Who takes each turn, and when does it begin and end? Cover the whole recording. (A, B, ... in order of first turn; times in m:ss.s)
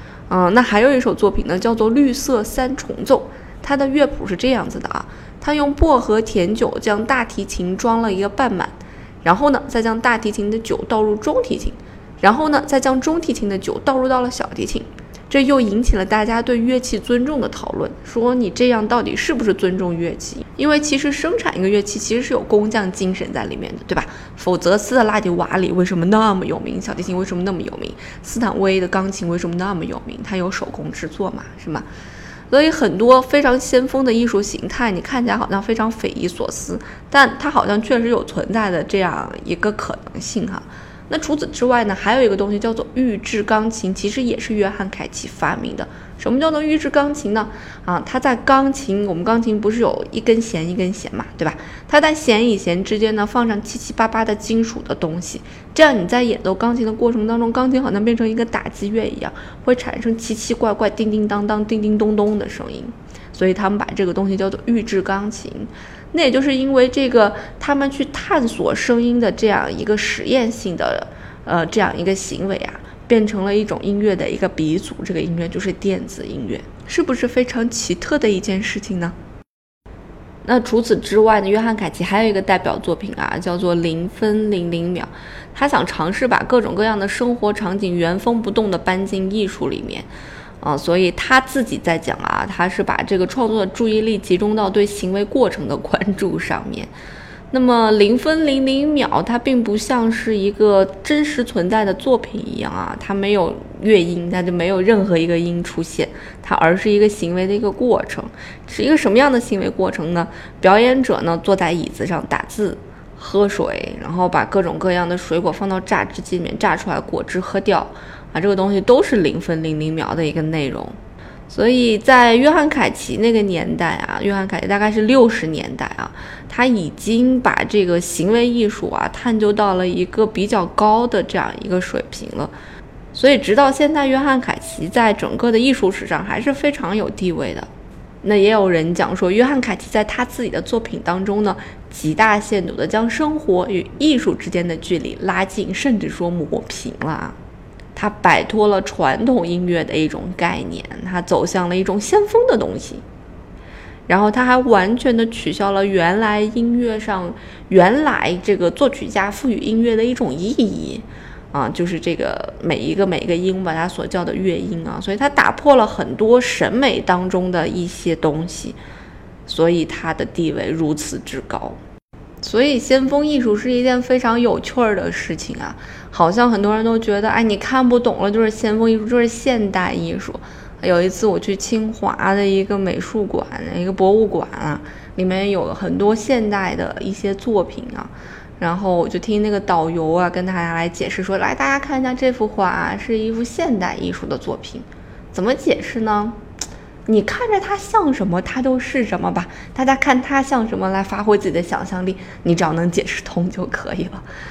0:00.3-0:31.9 A
0:32.5-1:19.2 A
1:20.4-1:30.1 A
1:30.6-1:36.9 A
1:37.5-2:01.0 A
2:01.5-2:12.5 A
2:13.1-2:17.7 A
2:18.2-2:27.4 A
2:28.0-2:33.0 A
2:34.1-2:48.8 A
2:49.5-2:51.8 A
2:52.4-3:16.4 A
3:17.1-3:24.2 A